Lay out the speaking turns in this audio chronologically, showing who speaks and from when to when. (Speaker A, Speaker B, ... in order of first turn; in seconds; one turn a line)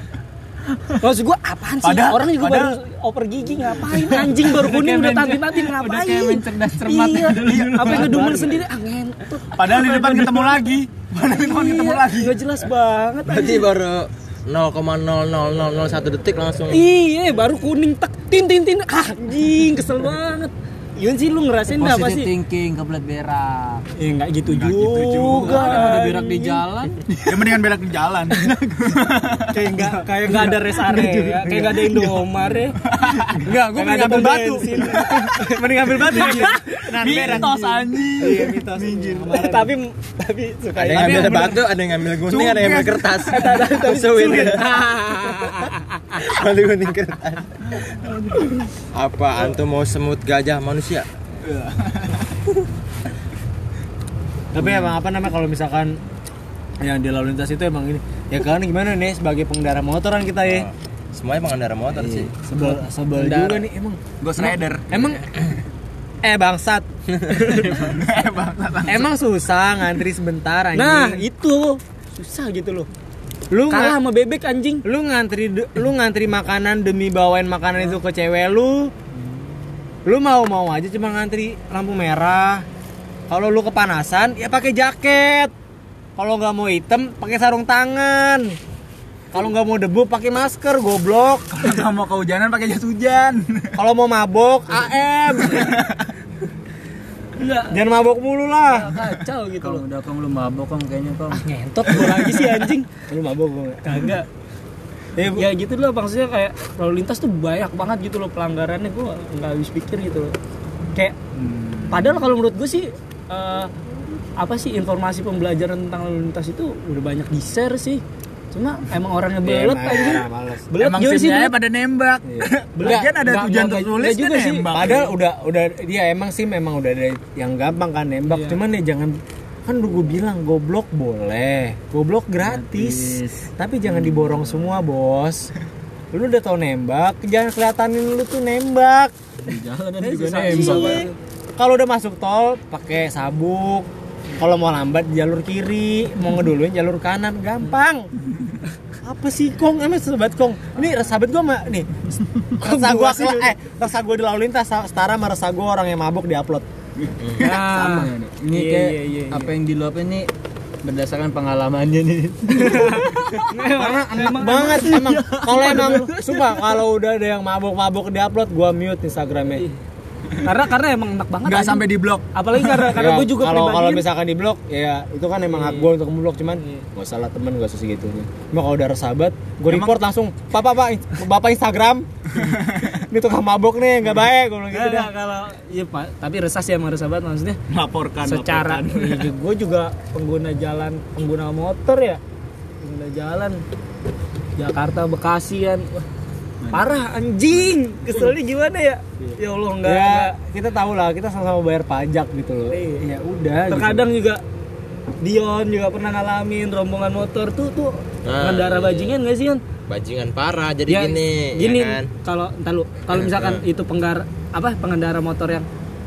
Speaker A: 1.0-10.7
Speaker B: 1.8-2.8
Speaker C: 4.0-8.3
Speaker B: 7.4-8.1
Speaker D: 7.9-8.6
Speaker B: 9.5-12.3
Speaker A: 11.3-13.7
Speaker E: 13.3-16.8
Speaker A: 16.7-22.3
Speaker C: 21.8-23.8
Speaker A: 24.0-26.6
Speaker B: 24.5-25.8
Speaker C: 25.2-27.0
Speaker B: 27.1-29.5
Speaker A: 29.5-32.8
Speaker D: 29.5-32.2
Speaker B: 32.8-33.5
Speaker D: 33.4-39.7
Speaker A: 33.7-37.3
Speaker B: 36.2-39.3
Speaker A: 39.3-41.6
Speaker E: 40.8-47.6
Speaker D: 40.9-41.6
Speaker B: 42.2-43.1
Speaker A: 43.2-46.2
Speaker E: 48.9-51.0
Speaker B: 51.4-52.3
Speaker D: 54.5-56.0
Speaker D: 56.8-60.7
Speaker E: 60.4-62.3
Speaker D: 62.0-65.2
Speaker A: 62.6-63.6
Speaker B: 64.2-65.0
Speaker D: 66.2-67.6
Speaker B: 67.5-69.1
Speaker D: 68.8-71.2
Speaker A: 70.7-72.9
Speaker D: 73.5-74.0
Speaker A: 73.7-74.8
Speaker D: 74.8-78.9
Speaker D: 80.0-82.6
Speaker D: 83.3-85.5
Speaker D: 86.2-88.6
Speaker D: 89.3-91.7
Speaker B: 91.5-93.7
Speaker D: 93.8-95.8
Speaker B: 95.5-96.0
Speaker A: 97.4-97.8
Speaker D: 97.7-98.9
Speaker A: 98.7-99.8
Speaker C: 99.6-102.2
Speaker A: 101.3-102.9
Speaker D: 103.1-104.2
Speaker A: 103.8-104.3
Speaker D: 105.1-105.5
Speaker A: 105.3-110.3
Speaker B: 111.3-112.2
Speaker A: 111.9-113.7
Speaker A: 114.4-121.5
Speaker D: 119.4-120.7
Speaker B: 120.8-125.1
Speaker D: 122.2-123.1
Speaker A: 122.8-125.1
Speaker D: 124.7-135.5
Speaker A: 128.3-128.6
Speaker C: 132.4-133.5
Speaker D: 136.1-139.1
Speaker C: 139.4-141.1
Speaker A: 140.0-141.1
Speaker D: 140.2-148.1
Speaker D: 149.0-151.9
Speaker D: 152.6-156.7
Speaker A: 152.6-153.5
Speaker B: 157.0-157.5
Speaker E: 157.2-157.4
Speaker A: 157.4-159.5
Speaker C: 157.4-160.3
Speaker C: 160.8-163.4
Speaker A: 162.5-166.5
Speaker D: 163.6-169.7
Speaker A: 170.4-174.1
Speaker B: 171.4-173.1
Speaker D: 172.9-182.1
Speaker A: 175.5-175.9
Speaker A: 176.6-176.8
Speaker B: 179.7-179.9
Speaker B: 182.3-183.0
Speaker D: 183.1-185.1
Speaker A: 184.7-187.6
Speaker B: 187.7-189.3
Speaker A: 188.2-192.2
Speaker A: 192.8-193.6
Speaker A: 194.6-196.1
Speaker B: 196.6-196.9
Speaker A: 196.7-200.3
Speaker D: 199.8-204.1
Speaker A: 203.7-204.4
Speaker A: 205.2-209.6
Speaker E: 208.2-209.2
Speaker E: 209.9-212.1
Speaker A: 210.9-215.7
Speaker E: 213.1-213.6